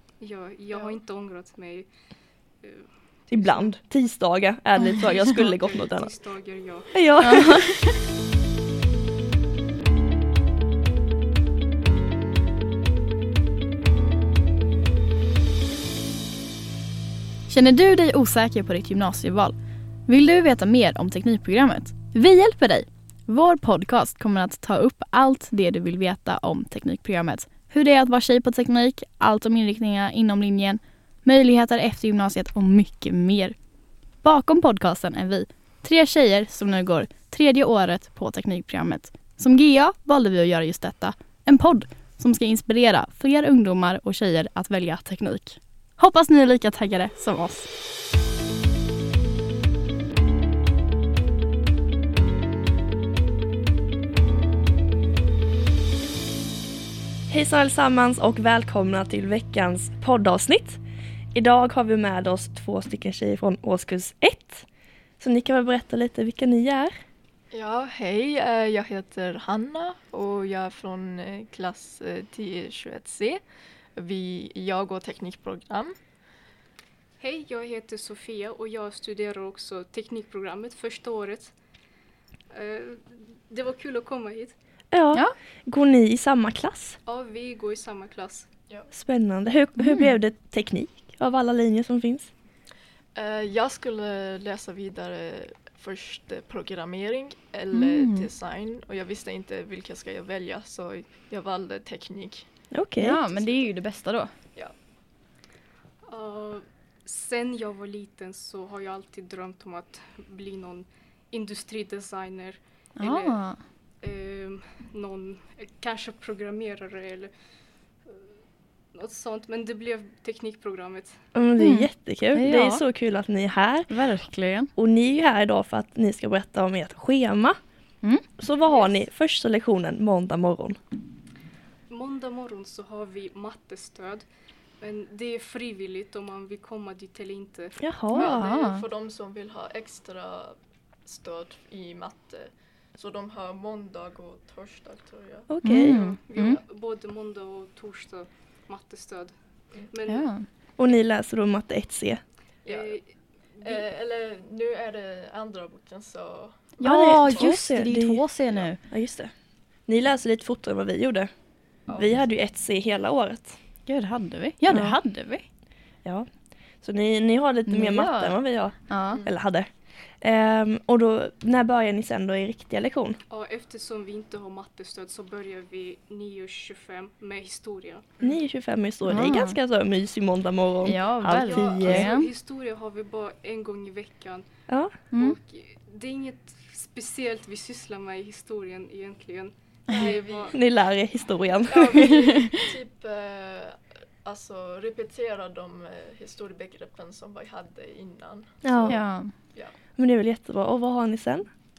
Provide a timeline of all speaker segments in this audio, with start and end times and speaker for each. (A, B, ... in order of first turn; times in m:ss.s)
0:00.2-0:01.9 A
0:00.7-0:01.0 B
0:02.6-0:03.7 A
0:03.3-0:06.1 C
0:05.1-0:07.0 A
0:06.9-0:07.8 C
0:07.2-0:08.0 D
0:17.5-0:19.6 D
0:20.1-0:33.6 D
0:34.2-0:47.7 D
0:57.3-1:00.8 C
1:01.3-1:04.7 C
1:05.2-1:06.9 C
1:07.5-1:13.4 B
1:14.0-1:16.0 B
1:17.2-1:21.6 A
1:22.5-1:24.6 A
1:24.9-1:27.0 C
1:27.1-1:28.5 A
1:28.9-1:32.3 C
1:29.8-1:30.1 D
1:33.2-1:42.5 B
1:37.7-1:38.3 D
1:42.7-1:43.2 C
1:43.0-1:44.3 D
1:43.3-1:43.7 B
1:46.0-1:53.4 A
1:53.0-1:53.6 D
1:54.0-1:57.3 A
1:58.0-1:58.4 A
1:58.9-2:01.2 A
2:01.3-2:03.9 C
2:01.6-2:02.8 D
2:03.9-2:04.7 D
2:04.8-2:07.6 C
2:08.4-2:10.8 C
2:08.6-2:09.0 A
2:11.9-2:14.2 A
2:14.8-2:17.8 A
2:17.8-2:18.5 C
2:18.1-2:18.8 D
2:18.1-2:25.5 B
2:25.5-2:26.1 C
2:25.6-2:26.6 D
2:25.9-2:29.3 A
2:29.9-2:30.3 A
2:30.1-2:30.5 D
2:30.8-2:32.2 C
2:32.6-2:33.0 B
2:32.7-2:33.1 A
2:33.6-2:33.9 A
2:33.6-2:37.6 B
2:36.8-2:38.8 D
2:36.8-2:38.2 C
2:38.8-2:39.3 C
2:39.9-2:41.3 C
2:41.9-2:42.2 B
2:41.9-2:43.6 C
2:43.9-2:45.5 D
2:44.7-2:45.0 C
2:46.8-2:49.7 C
2:47.7-2:48.4 D
2:48.9-2:49.2 D
2:49.1-2:49.4 B
2:50.2-2:53.2 C
2:53.3-2:58.1 A
2:58.2-3:02.1 C
2:59.1-2:59.6 D
3:00.8-3:02.3 D
3:01.4-3:01.8 B
3:01.8-3:04.5 A
3:04.7-3:04.9 C
3:05.1-3:10.6 A
3:09.9-3:10.6 B
3:10.5-3:12.1 C
3:11.7-3:19.8 B
3:11.7-3:12.2 A
3:12.1-3:12.6 D
3:18.6-3:19.0 C
3:18.9-3:19.3 D
3:20.0-3:21.5 C